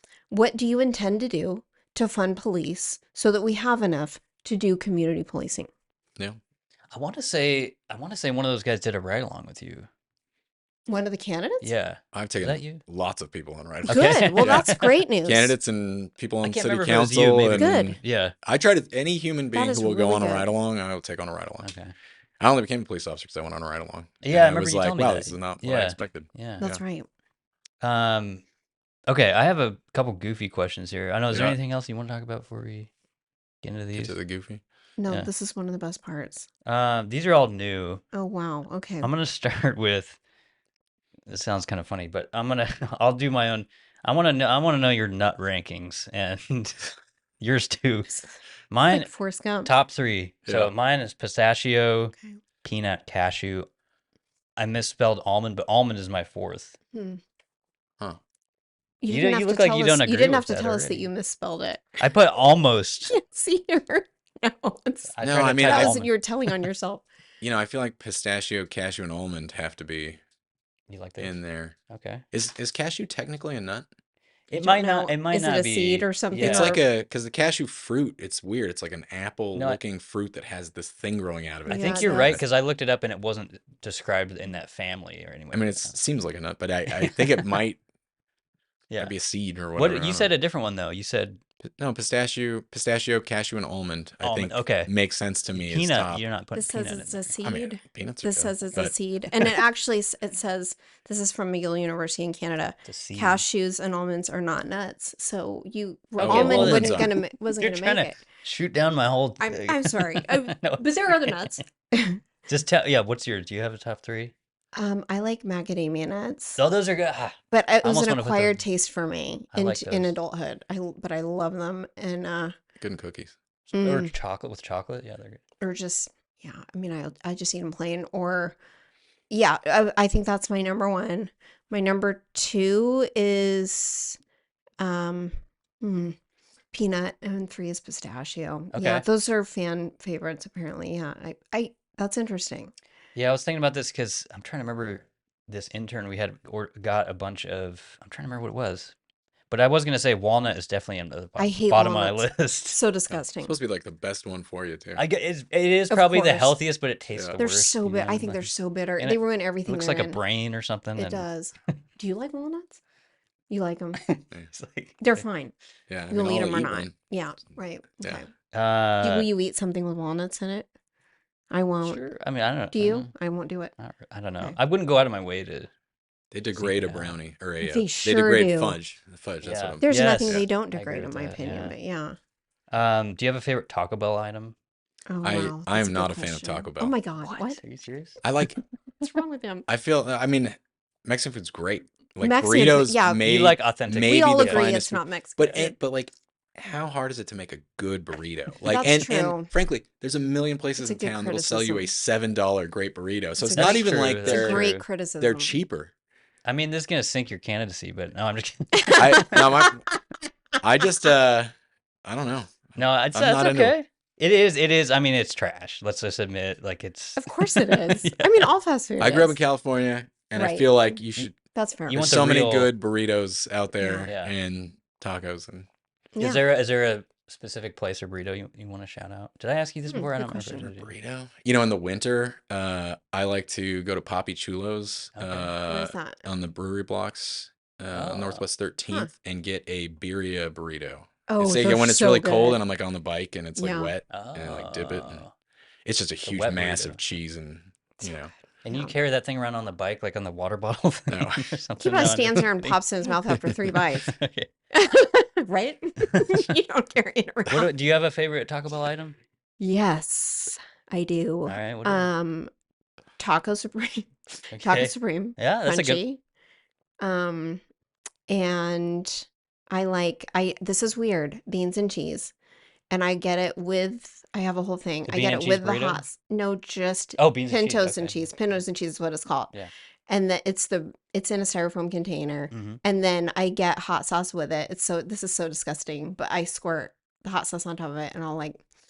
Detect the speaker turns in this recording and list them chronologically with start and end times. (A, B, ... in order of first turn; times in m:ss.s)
0:00.3-0:05.7 A
0:06.9-0:09.9 B
0:10.9-0:11.7 A
0:11.6-0:12.8 B
0:12.1-0:14.7 C
0:13.8-0:15.0 B
0:13.9-0:15.5 A
0:15.2-0:21.7 C
0:16.4-0:18.4 B
0:17.5-0:18.0 A
0:19.5-0:20.5 A
0:21.6-0:22.0 B
0:22.4-0:26.3 C
0:24.2-0:26.8 B
0:26.6-0:27.1 A
0:27.8-0:28.4 B
0:29.1-0:32.9 B
0:31.3-0:31.6 C
0:33.6-0:34.2 B
0:34.0-0:34.6 C
0:35.0-0:36.5 A
0:36.6-0:38.0 B
0:38.1-0:39.1 A
0:39.0-0:40.2 B
0:41.3-0:48.2 B
0:48.7-0:49.1 B
0:48.9-0:49.7 A
0:49.6-0:53.7 B
0:50.5-0:50.7 C
0:54.6-0:56.8 B
0:56.9-0:57.2 A
0:59.0-1:01.9 A
0:59.1-1:01.1 B
1:02.0-1:03.2 B
1:03.1-1:07.0 A
1:05.1-1:06.1 B
1:05.2-1:05.9 C
1:07.4-1:10.2 C
1:10.9-1:12.2 B
1:11.2-1:11.8 C
1:12.3-1:13.9 C
1:14.5-1:16.8 B
1:14.6-1:16.8 A
1:16.4-1:22.4 C
1:19.5-1:19.8 B
1:21.7-1:22.4 A
1:21.7-1:26.0 B
1:25.5-1:27.8 C
1:27.0-1:27.5 B
1:28.9-1:29.2 B
1:29.0-1:30.3 C
1:29.8-1:31.4 B
1:31.8-1:36.2 C
1:34.2-1:34.9 B
1:35.5-1:37.3 B
1:36.5-1:48.2 A
1:37.4-1:38.9 C
1:42.8-1:43.4 B
1:46.2-1:47.1 C
1:46.2-1:51.6 B
1:49.4-1:52.2 A
1:52.5-1:54.3 B
1:54.8-1:56.6 A
1:56.6-1:58.6 B
1:57.5-2:02.5 A
1:59.5-2:00.2 B
2:02.8-2:03.3 C
2:03.7-2:04.1 A
2:03.8-2:05.4 B
2:05.6-2:08.6 A
2:09.3-2:14.2 A
2:14.8-2:16.2 A
2:16.7-2:22.7 A
2:18.7-2:19.0 B
2:23.2-2:28.9 B
2:29.5-2:32.8 B
2:31.4-2:33.5 A
2:33.1-2:35.0 C
2:35.0-2:41.3 B
2:35.9-2:36.6 A
2:37.4-2:40.2 A
2:41.0-2:42.8 A
2:43.5-2:44.0 A
2:44.0-2:45.2 B
2:45.0-2:45.5 A
2:45.9-2:47.0 C
2:46.1-2:48.3 A
2:48.5-2:49.3 B
2:49.0-2:50.7 A
2:51.5-2:52.0 A
2:51.8-2:53.1 B
2:52.7-2:53.7 A
2:53.8-2:55.7 B
2:56.3-3:00.5 C
2:56.6-2:57.2 B
2:57.6-2:58.8 A
2:59.4-3:01.8 B
2:59.8-3:02.2 A
3:02.7-3:04.6 B
3:05.1-3:07.6 A
3:05.2-3:07.0 C
3:07.2-3:08.2 B
3:08.2-3:08.6 C
3:09.0-3:09.7 A
3:09.7-3:24.7 C
3:12.2-3:13.3 A
3:13.2-3:14.7 B
3:14.0-3:15.8 A
3:18.6-3:19.5 A
3:20.8-3:21.9 A
3:23.4-3:25.5 A
3:23.5-3:24.8 B
3:25.2-3:25.9 C
3:26.4-3:29.3 B
3:28.8-3:29.8 A
3:29.0-3:29.8 C
3:30.6-3:31.5 C
3:32.0-3:33.8 C
3:32.8-3:38.5 B
3:37.2-3:39.4 A
3:39.0-3:41.4 C
3:40.3-3:40.7 A
3:41.5-3:42.1 A
3:41.9-3:42.7 B
3:41.9-3:45.7 C
3:43.8-3:44.1 A
3:44.0-3:44.4 B
3:46.2-3:46.4 A
3:46.2-3:50.9 B
3:49.9-3:50.7 A
3:50.7-4:05.2 C
3:55.2-3:55.5 B
3:55.6-3:56.2 A
3:57.8-3:58.4 B
4:01.3-4:02.6 A
4:03.6-4:04.0 A
4:04.1-4:05.3 B
4:05.8-4:08.3 C
4:06.2-4:07.0 B
4:08.0-4:08.9 A
4:08.6-4:14.5 B
4:11.1-4:11.6 C
4:11.8-4:14.2 A
4:14.7-4:17.7 A
4:17.5-4:19.2 B
4:19.6-4:22.5 A
4:21.5-4:22.1 B
4:23.2-4:26.2 A
4:24.5-4:26.0 B
4:27.0-4:27.6 A
4:28.3-4:32.3 A
4:32.9-4:39.5 A
4:35.1-4:36.0 B
4:37.2-4:38.3 B
4:40.1-4:48.6 A
4:42.5-4:42.8 B